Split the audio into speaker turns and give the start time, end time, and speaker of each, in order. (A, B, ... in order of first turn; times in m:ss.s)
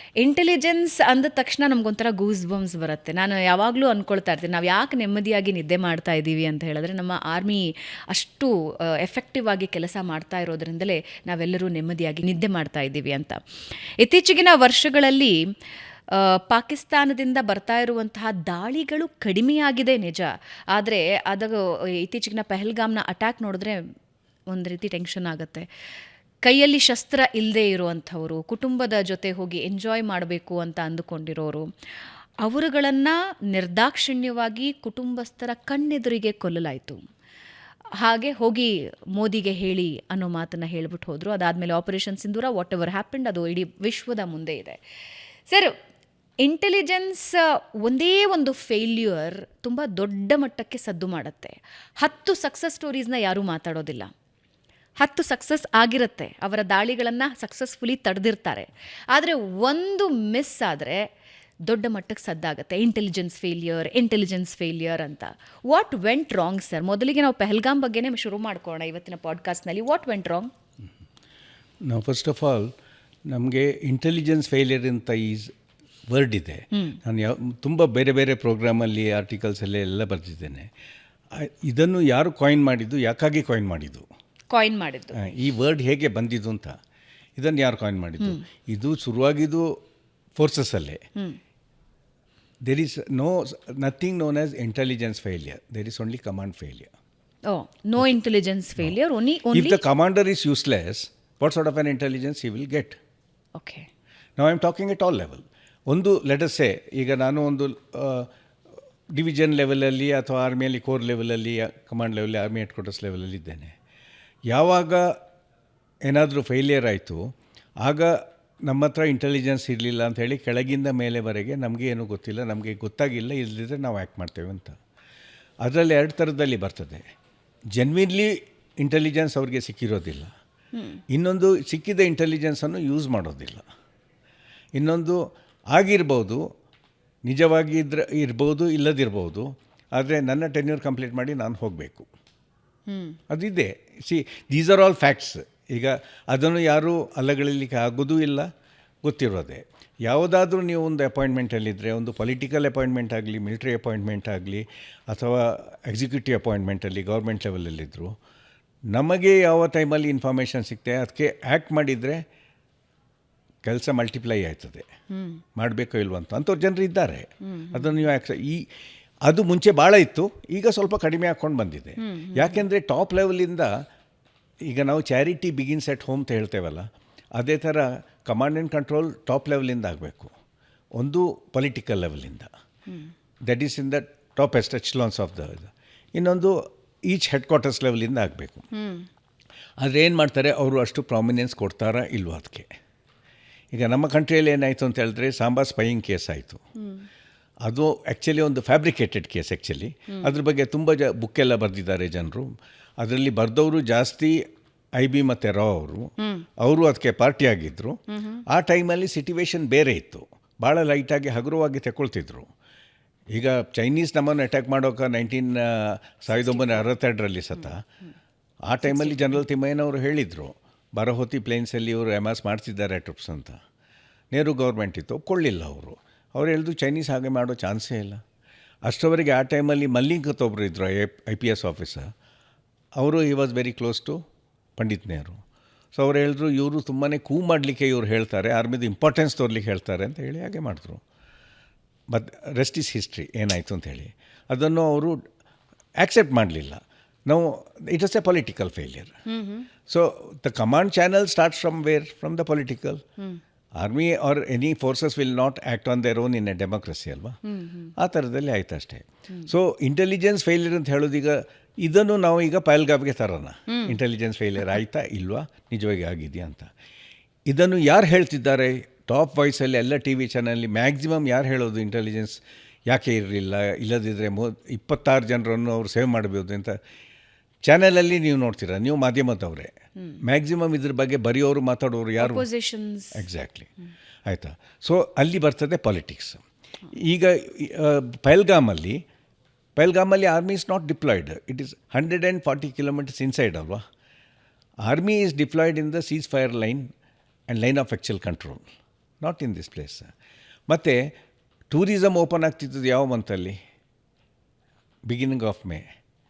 0:00.2-0:13.4 A
0:14.0-0:15.3 A
0:16.1-0:23.8 A
0:24.5-0:25.7 A
0:26.4-0:31.7 A
0:32.4-0:37.0 A
0:38.0-0:44.8 A
0:45.5-0:45.7 A
0:46.4-0:54.1 A
0:55.0-1:01.0 A
1:01.7-1:10.5 A
1:11.8-1:12.7 B
1:13.3-1:15.5 B
1:16.1-1:20.7 B
1:16.7-1:17.0 A
1:21.3-1:24.1 B
1:24.5-1:25.2 A
1:25.2-1:26.8 B
1:27.4-1:29.8 B
1:30.4-1:31.0 B
1:32.6-1:36.9 B
1:37.5-1:39.8 A
1:39.5-1:43.0 B
1:43.6-1:43.9 A
1:44.4-1:48.3 B
1:49.1-1:53.7 B
1:54.5-1:55.2 B
1:56.0-1:57.3 B
1:57.8-2:04.8 B
2:05.6-2:07.0 B
2:07.8-2:10.3 B
2:10.7-2:11.0 A
2:11.1-2:13.7 B
2:14.8-2:15.2 B
2:15.7-2:16.4 B
2:17.2-2:22.1 B
2:22.9-2:23.2 A
2:23.3-2:28.5 B
2:29.0-2:38.2 B
2:38.9-2:42.2 B
2:43.6-2:44.9 B
2:45.1-2:45.4 A
2:45.6-2:48.7 B
2:47.5-2:47.9 A
2:49.2-2:53.8 B
2:52.0-2:52.6 A
2:54.6-3:00.3 B
3:01.0-3:02.5 B
3:03.4-3:08.7 B
3:08.7-3:09.1 A
3:09.8-3:12.7 B
3:13.7-3:16.6 B
3:16.8-3:17.1 A
3:17.6-3:24.4 B
3:25.0-3:32.5 B
3:26.2-3:26.5 A
3:28.1-3:28.4 A
3:33.3-3:37.8 B
3:36.3-3:36.9 A
3:38.7-3:43.6 B
3:38.8-3:39.4 A
3:44.3-3:48.2 B
3:48.8-3:52.1 B
3:53.0-3:54.2 B
3:54.8-3:55.4 B
3:55.9-4:01.0 B
4:02.1-4:05.2 B
4:06.0-4:09.1 B
4:09.3-4:09.7 A
4:09.9-4:13.0 B
4:13.8-4:17.4 B
4:17.4-4:17.9 A
4:18.0-4:26.7 B
4:23.7-4:24.0 A
4:27.5-4:36.8 B
4:37.6-4:42.4 B
4:42.2-4:43.2 A
4:43.2-4:43.7 B
4:44.3-4:49.0 B
4:49.8-4:53.8 B
4:54.8-4:56.9 B
4:57.5-4:58.7 B
4:59.2-5:00.1 B
5:00.7-5:01.1 B
5:01.7-5:03.6 B
5:05.1-5:05.8 B